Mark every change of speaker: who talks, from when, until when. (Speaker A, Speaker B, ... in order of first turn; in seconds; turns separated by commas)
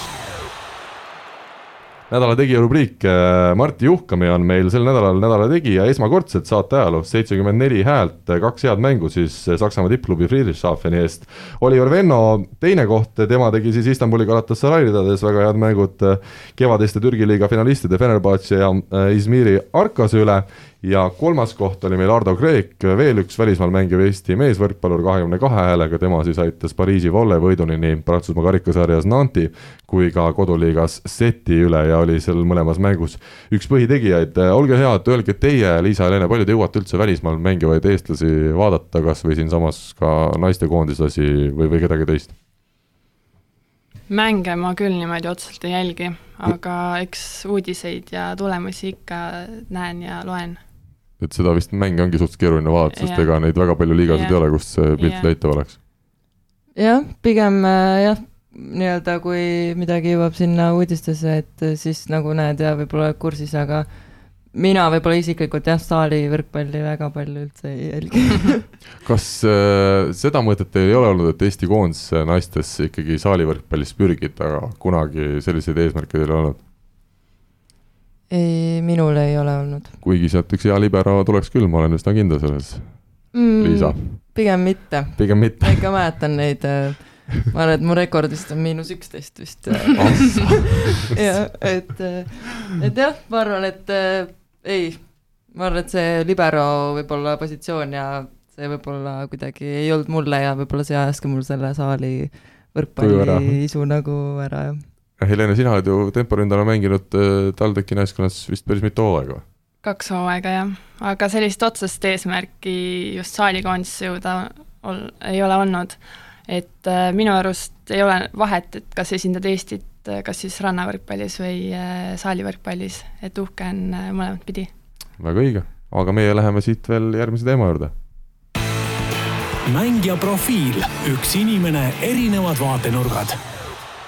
Speaker A: 2.1-42.3, Speaker B: 44.1-50.6, Speaker A: 51.2-55.8, Speaker B: 52.9-55.3, Speaker C: 56.7-63.9, Speaker C: 64.5-68.7, Speaker A: 69.0-76.6, Speaker C: 78.3-80.0, Speaker A: 80.0-82.9, Speaker C: 83.3-104.8, Speaker A: 83.6-84.0, Speaker A: 85.2-85.8, Speaker A: 90.0-90.9, Speaker A: 103.0-103.6, Speaker A: 105.2-109.4, Speaker B: 109.8-124.7, Speaker A: 125.2-127.9, Speaker D: 129.7-133.4